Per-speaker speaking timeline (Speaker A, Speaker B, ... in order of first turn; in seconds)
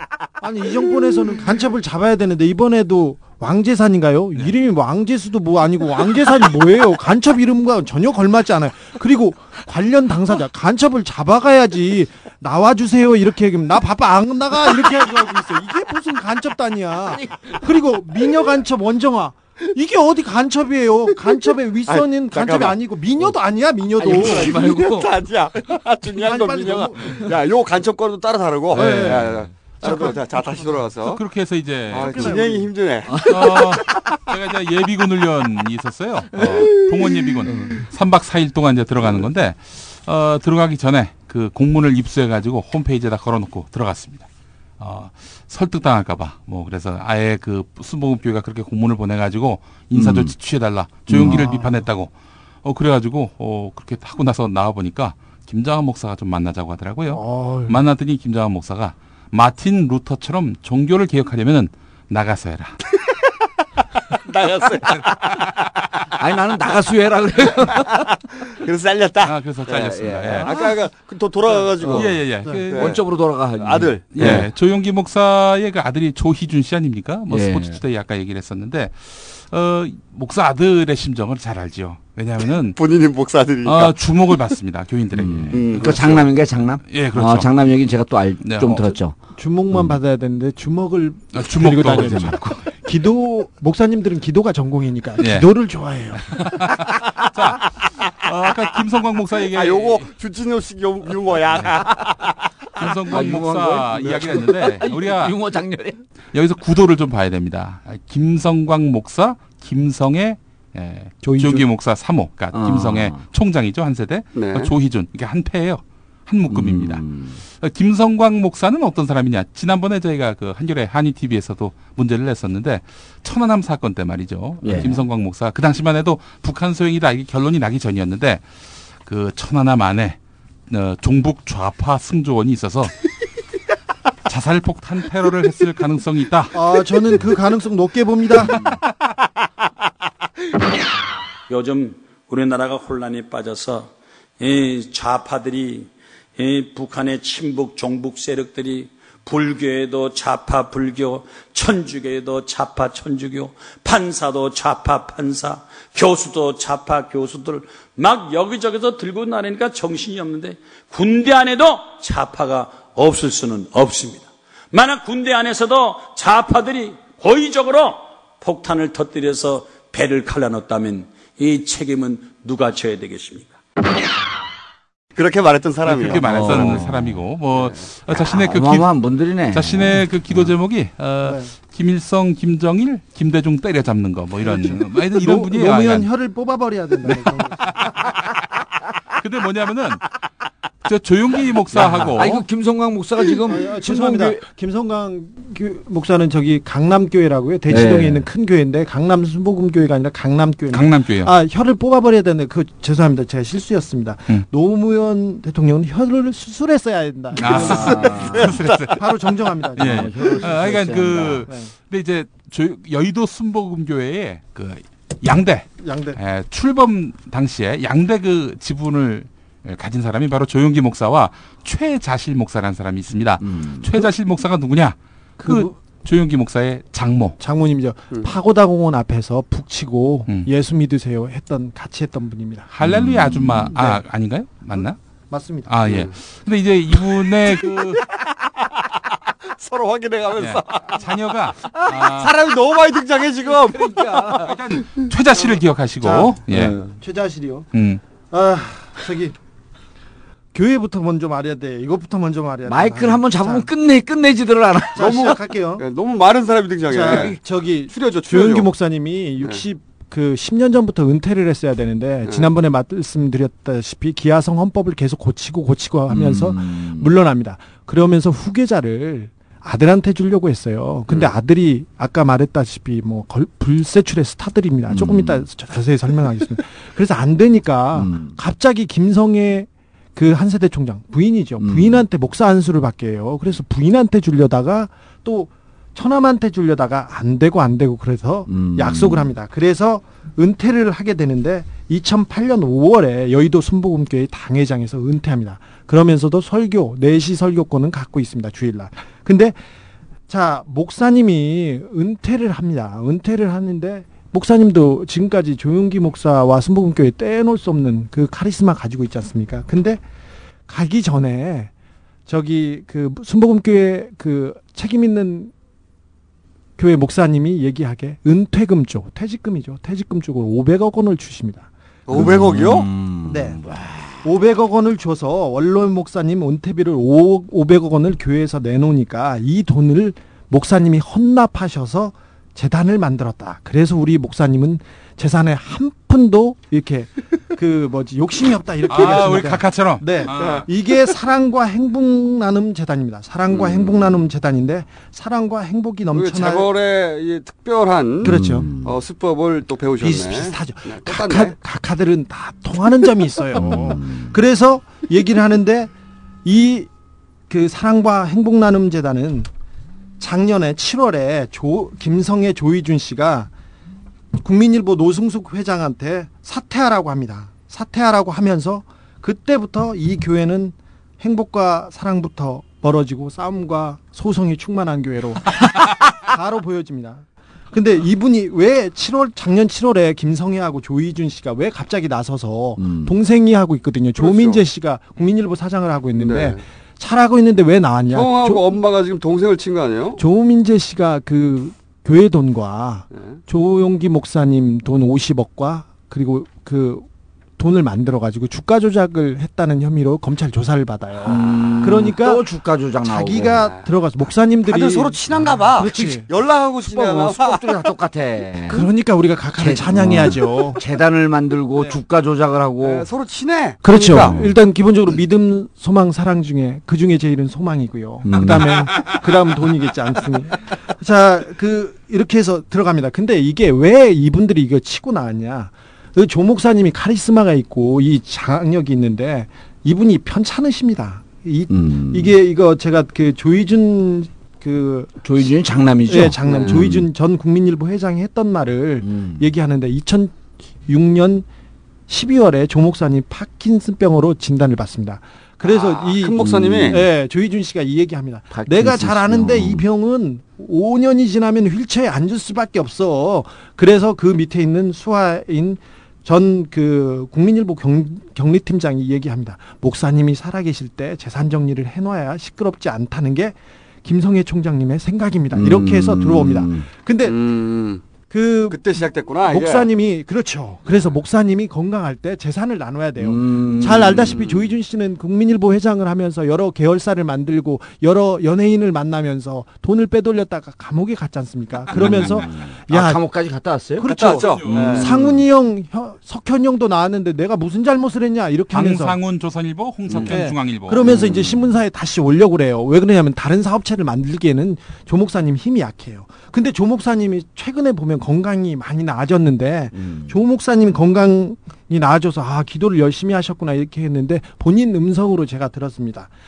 Speaker A: 0.4-24.6, 26.1-27.3, 28.7-30.3, 31.9-32.7, 51.1-51.8, 57.1-57.8, 89.3-96.4, 111.2-111.7, 136.5-138.5, 181.2-181.5, 184.4-187.7, 193.5-208.3, 208.9-211.7, 215.8-216.2, 225.4-225.7, 227.4-232.7, 233.7-234.0, 235.3-235.7, 246.0-247.7, 248.3-249.3, 250.5-253.7, 254.9-255.8, 256.9-299.6, 300.3-310.0, 310.7-311.7, 312.2-315.5, 316.8-322.3, 323.2-323.6, 324.2-346.7, 348.2-348.7, 350.0-355.9, 356.4-356.9, 357.5-359.5, 360.2-363.5, 364.4-388.6, 390.2-397.1, 397.6-402.4, 403.0-405.2, 405.7-406.3, 408.7-410.8, 413.8-435.1, 436.1-441.4, 442.1-467.3, 468.3-483.2, 484.0-489.2, 490.2-506.3
Speaker B: 17.1-17.6, 24.0-25.1, 28.8-29.1, 33.1-33.6, 37.5-37.7, 49.9-50.3, 51.1-51.4, 66.1-68.0, 70.0-70.5, 72.7-74.5, 77.3-77.8, 85.1-89.2, 89.7-90.0, 103.1-106.0, 112.5-113.2, 116.5-117.4, 124.6-125.0, 138.5-138.8, 176.1-177.2, 178.1-180.5, 191.7-194.4, 197.7-198.2, 207.4-208.6, 209.8-211.4, 223.4-224.1, 232.8-233.7, 243.4-244.5, 246.5-246.9, 252.7-255.2, 266.1-267.1, 274.9-275.4, 277.9-278.4, 281.6-282.0, 288.5-289.3, 322.1-324.2, 348.2-348.9, 353.6-354.4, 382.8-383.1, 401.2-403.6, 405.4-406.0, 406.8-408.8, 409.6-413.1, 414.1-414.5, 418.2-418.8, 431.7-432.3, 435.2-437.1, 439.0-439.5, 446.4-447.0, 448.5-449.8, 465.5-466.9, 473.2-474.4, 481.9-485.4, 490.1-490.5, 491.0-491.7, 499.9-500.4
Speaker C: 21.9-22.8, 24.3-31.2, 31.9-33.2, 64.3-65.2, 68.4-72.2, 72.7-73.0, 73.6-74.3, 82.8-84.4, 85.5-86.0, 99.5-102.2, 104.0-104.5, 114.3-114.7, 175.2-176.8, 177.5-177.8, 208.4-208.8, 235.8-236.1, 239.5-241.0, 242.0-244.5, 255.0-258.7, 322.1-322.9, 340.3-340.6, 343.5-344.1, 346.1-351.5, 384.2-384.6, 386.1-386.6, 388.1-390.2, 393.1-393.4, 403.5-403.9, 404.6-407.8, 412.8-414.4, 436.4-436.8, 445.6-447.0, 467.2-468.0, 468.7-469.9, 474.3-474.7, 484.1-485.1
Speaker D: 28.8-29.1, 31.0-32.4, 33.2-44.3, 44.8-52.1, 52.6-62.8, 69.2-70.6, 71.8-73.0, 74.1-82.8, 83.6-86.3, 86.9-87.5, 88.4-88.9, 91.3-92.5, 95.2-95.5, 96.4-100.1, 102.8-105.3, 106.3-128.5, 129.0-132.9, 134.3-136.5, 175.8-178.9, 179.5-186.1, 187.1-188.1, 189.2-190.1, 190.8-192.4, 200.7-201.3, 207.4-209.0, 209.8-227.3, 232.7-235.0, 235.7-238.0, 240.3-242.3, 244.4-246.8, 247.7-248.0, 338.9-340.7, 484.4-484.8, 488.7-491.1
Speaker E: 141.5-173.6